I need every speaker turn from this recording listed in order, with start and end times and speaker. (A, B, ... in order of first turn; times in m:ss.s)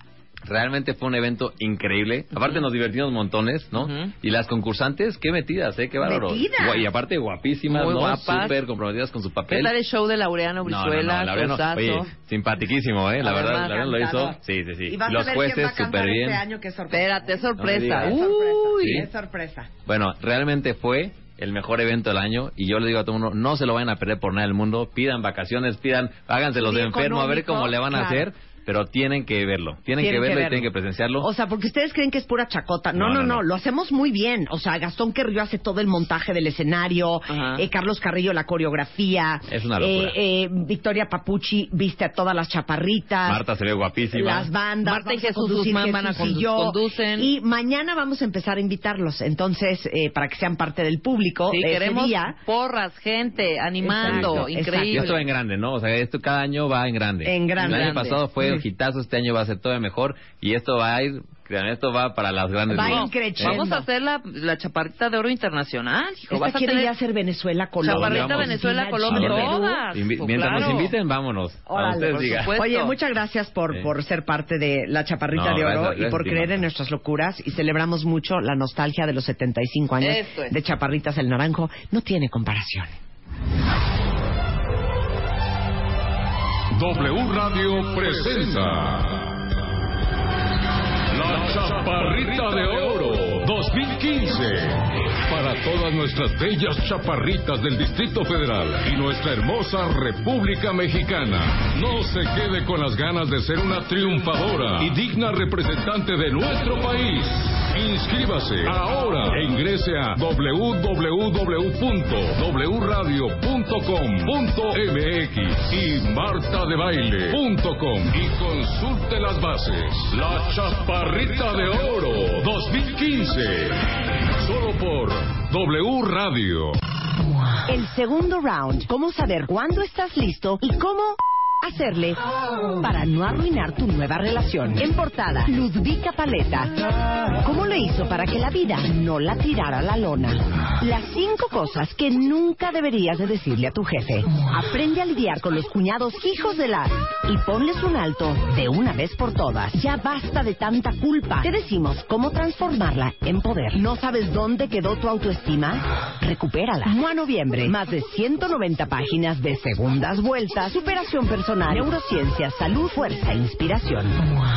0:00.4-0:09.7 A
0:03.7-0:04.1 B
0:06.0-0:06.9 C
0:07.7-0:08.6 B
0:09.5-0:12.1 B
0:10.6-0:16.4 A
0:13.2-0:13.9 B
0:13.4-0:19.7 C
0:16.9-0:19.0 B
0:17.6-0:18.2 A
0:18.8-0:19.1 A
0:19.9-0:31.3 A
0:26.6-0:28.3 C
0:30.0-0:43.5 C
0:32.9-0:33.4 A
0:37.3-0:37.6 B
0:39.5-0:40.2 A
0:43.2-0:44.5 A
0:44.1-0:52.4 C
0:44.8-0:47.3 B
0:51.5-0:55.2 B
0:53.8-0:55.2 C
0:54.0-1:03.6 A
0:57.2-0:57.8 C
0:57.6-0:58.2 B
0:58.4-0:58.6 C
1:02.7-1:03.8 C
1:02.8-1:06.9 B
1:06.3-1:09.8 C
1:07.8-1:11.0 B
1:07.9-1:12.5 A
1:11.7-1:22.9 C
1:12.1-1:12.9 B
1:15.3-1:16.6 A
1:20.0-1:20.6 B
1:26.8-1:29.3 D
1:31.1-2:03.8 D
2:04.4-2:06.8 D
2:07.7-2:12.2 C
2:12.8-2:16.7 C
2:17.4-2:44.3 C